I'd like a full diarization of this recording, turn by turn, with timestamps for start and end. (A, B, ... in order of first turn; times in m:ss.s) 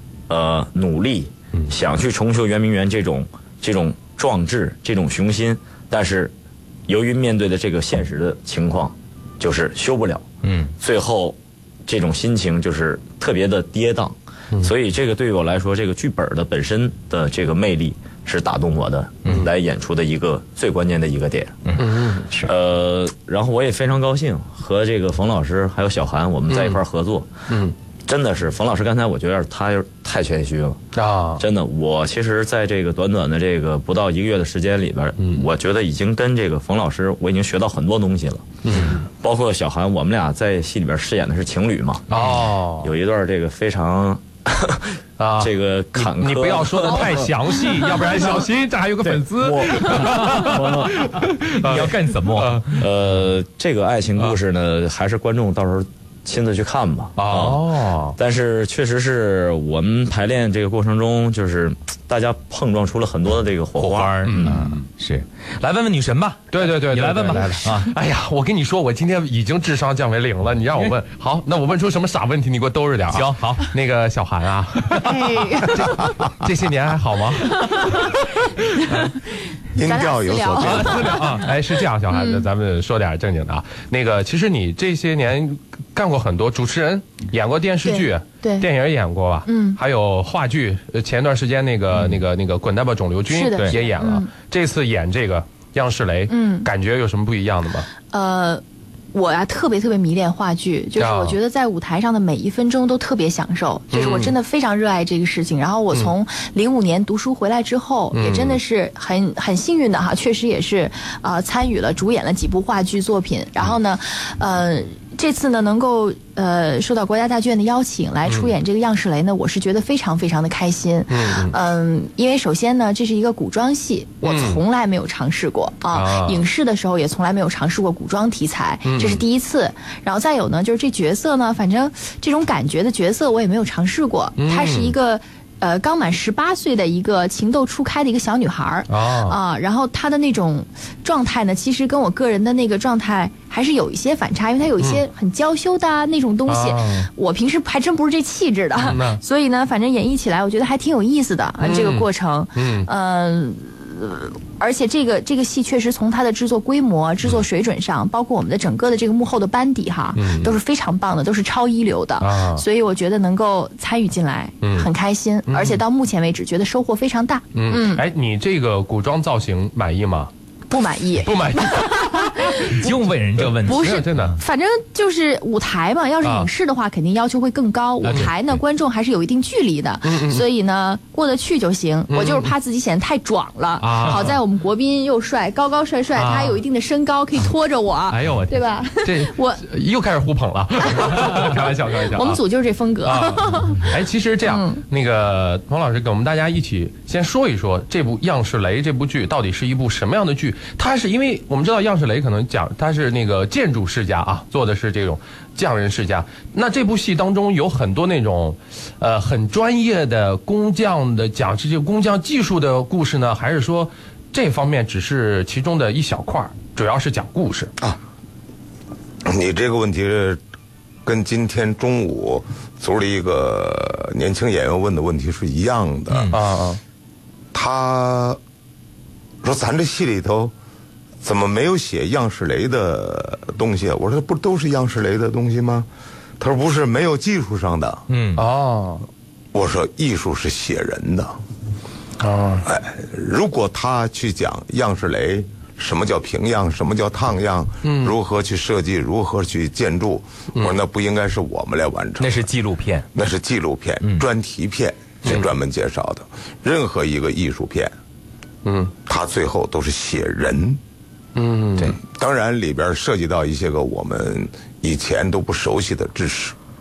0:00.3-0:06.3 A
0:06.9-0:10.2 A
0:10.4-0:10.7 B
0:10.8-0:21.7 A
0:21.6-0:22.5 B
0:21.8-0:22.3 C
0:22.4-0:27.3 A
0:26.5-0:26.8 C
0:27.5-0:27.8 C
0:28.1-0:30.8 A
0:31.0-0:31.4 C
0:31.4-0:48.3 A
0:35.2-0:35.4 C
0:38.6-0:39.0 C
0:42.1-0:42.9 C
0:45.2-0:52.8 C
0:49.0-0:51.2 A
0:50.1-0:50.5 B
0:51.4-0:52.8 B
0:52.7-1:04.6 A
0:57.2-0:58.2 C
1:03.8-1:07.9 B
1:04.2-1:04.8 C
1:06.5-1:18.1 C
1:13.1-1:13.7 B
1:15.0-1:16.0 D
1:17.5-1:18.0 D
1:18.7-1:19.1 D
1:18.9-1:19.1 C
1:19.7-1:21.2 E
1:19.8-1:21.4 D
1:20.6-1:37.9 C
1:22.1-1:22.5 D
1:27.8-1:28.7 D
1:29.5-1:29.8 D
1:33.3-1:34.3 D
1:36.3-1:36.7 D
1:38.1-1:38.6 D
1:39.1-2:48.0 D
1:41.0-1:41.4 C
1:43.9-1:44.4 C
1:48.1-1:48.6 C
1:58.2-1:58.5 C
2:01.1-2:01.6 C
2:04.2-2:04.6 C
2:05.9-2:06.4 C
2:08.8-2:09.2 C
2:14.4-2:15.0 C
2:18.9-2:19.4 C
2:26.5-2:27.1 C
2:28.8-2:29.2 C
2:31.6-2:32.9 C
2:40.2-2:40.6 C
2:42.2-2:42.6 C
2:44.6-2:44.9 C
2:45.5-2:45.8 C
2:47.5-2:50.3 C
2:50.7-2:52.8 D
2:51.2-2:54.4 C
2:52.7-2:54.4 B
2:53.6-3:09.6 D
2:56.2-2:56.5 C
2:58.0-2:58.3 C
3:00.1-3:00.4 C
3:02.1-3:02.5 C
3:03.8-3:04.4 C
3:06.1-3:06.6 C
3:08.1-3:12.4 C
3:10.9-3:13.9 D
3:13.0-3:37.7 C
3:14.4-3:14.8 D
3:39.2-3:40.4 E
3:41.0-3:46.4 E
3:46.1-3:46.4 B
3:46.3-3:46.8 C
3:47.5-3:48.4 E
3:49.4-3:50.5 E
3:51.2-3:55.9 E
3:56.4-3:58.0 E
3:58.1-3:58.5 B
3:58.4-3:59.0 C
3:59.5-4:01.4 E
4:02.2-4:02.6 C
4:02.6-4:12.5 E
4:07.8-4:08.1 C
4:12.2-4:13.1 B
4:13.1-4:18.0 E
4:18.6-4:18.9 C
4:19.0-4:20.8 E
4:21.4-4:22.0 C
4:22.0-4:26.6 E